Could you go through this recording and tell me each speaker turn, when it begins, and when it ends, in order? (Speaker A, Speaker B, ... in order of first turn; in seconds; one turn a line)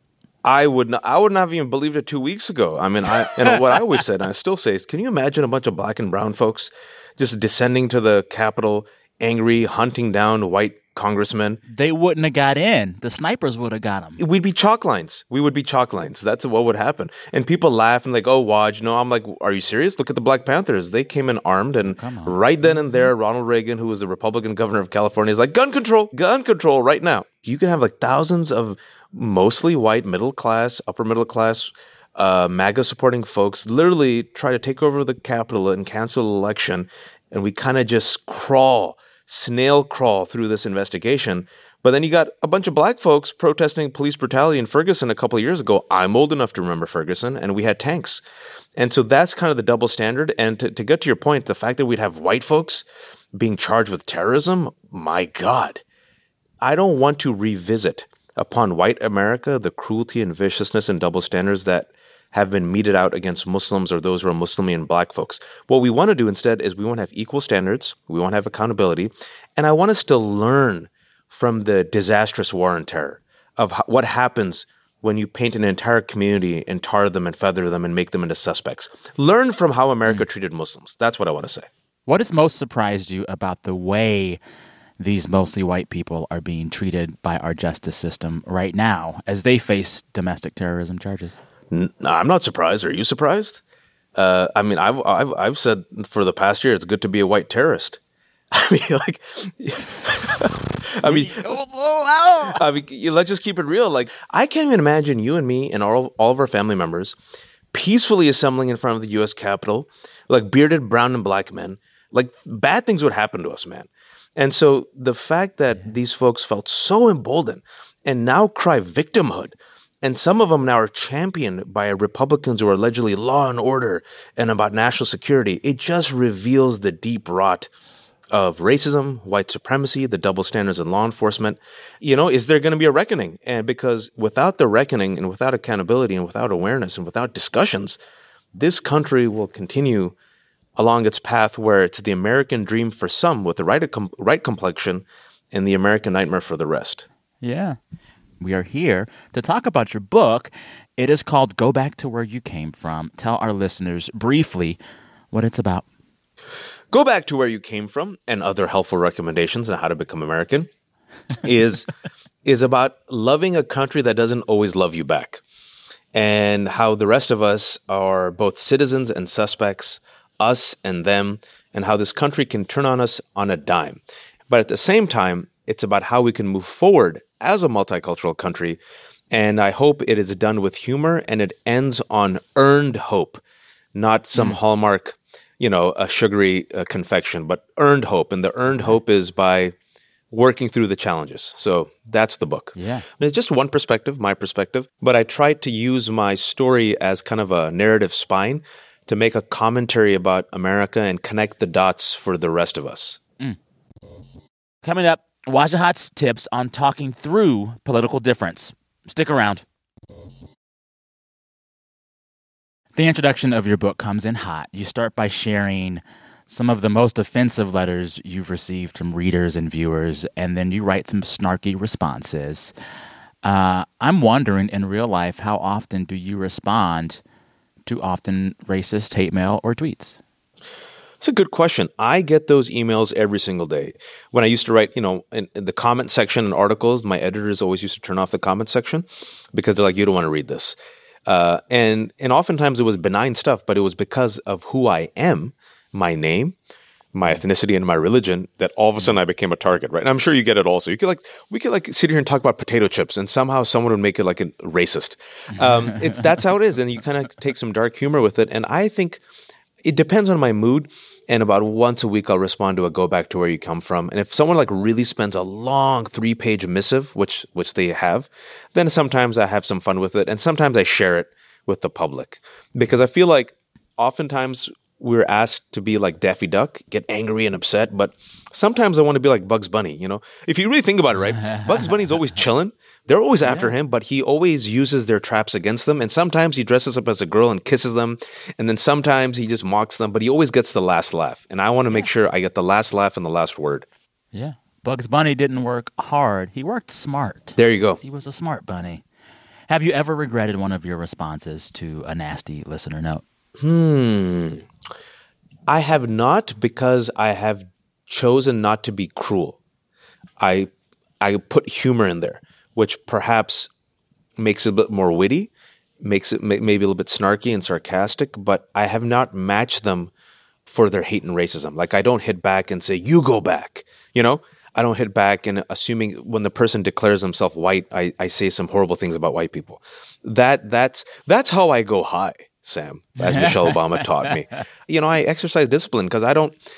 Speaker A: 0.4-11.6
Speaker B: 3.1-3.7
Speaker B: 11.7-14.2
Speaker A: 14.2-48.2
Speaker B: 21.9-23.1
Speaker A: 48.8-55.8
Speaker A: 56.6-81.7
Speaker B: 82.1-84.4
Speaker B: 85.0-91.4
Speaker A: 91.7-93.6
Speaker A: 94.1-98.0
Speaker A: 98.5-101.3
Speaker B: 101.0-102.6
Speaker A: 102.5-107.2
Speaker A: 107.7-127.7
Speaker A: 128.3-138.0
Speaker A: 138.5-140.1
Speaker A: 140.8-147.1
Speaker B: 147.4-147.8
Speaker B: 148.4-154.8
Speaker B: 155.3-155.8
Speaker A: 156.9-160.7
Speaker A: 161.3-161.9
Speaker A: 162.4-165.4
Speaker A: 166.1-178.8
Speaker A: 179.3-183.4
Speaker A: 183.9-189.7
Speaker B: 188.7-189.0
Speaker A: 190.3-203.2
Speaker B: 192.7-193.1
Speaker B: 204.8-209.6
Speaker B: 212.9-222.7
Speaker B: 223.4-227.2
Speaker B: 227.8-230.2
Speaker A: 231.2-246.6
Speaker A: 247.1-259.2
Speaker B: 255.5-256.2
Speaker A: 259.8-293.9
Speaker B: 281.4-281.9
Speaker B: 283.4-283.7
Speaker B: 294.3-299.0
Speaker A: 297.6-298.0
Speaker B: 299.7-303.2
Speaker A: 303.6-304.6
Speaker A: 305.7-309.6
Speaker A: 310.4-313.7
Speaker A: 314.4-320.1
Speaker A: 320.6-336.6
Speaker B: 333.2-334.3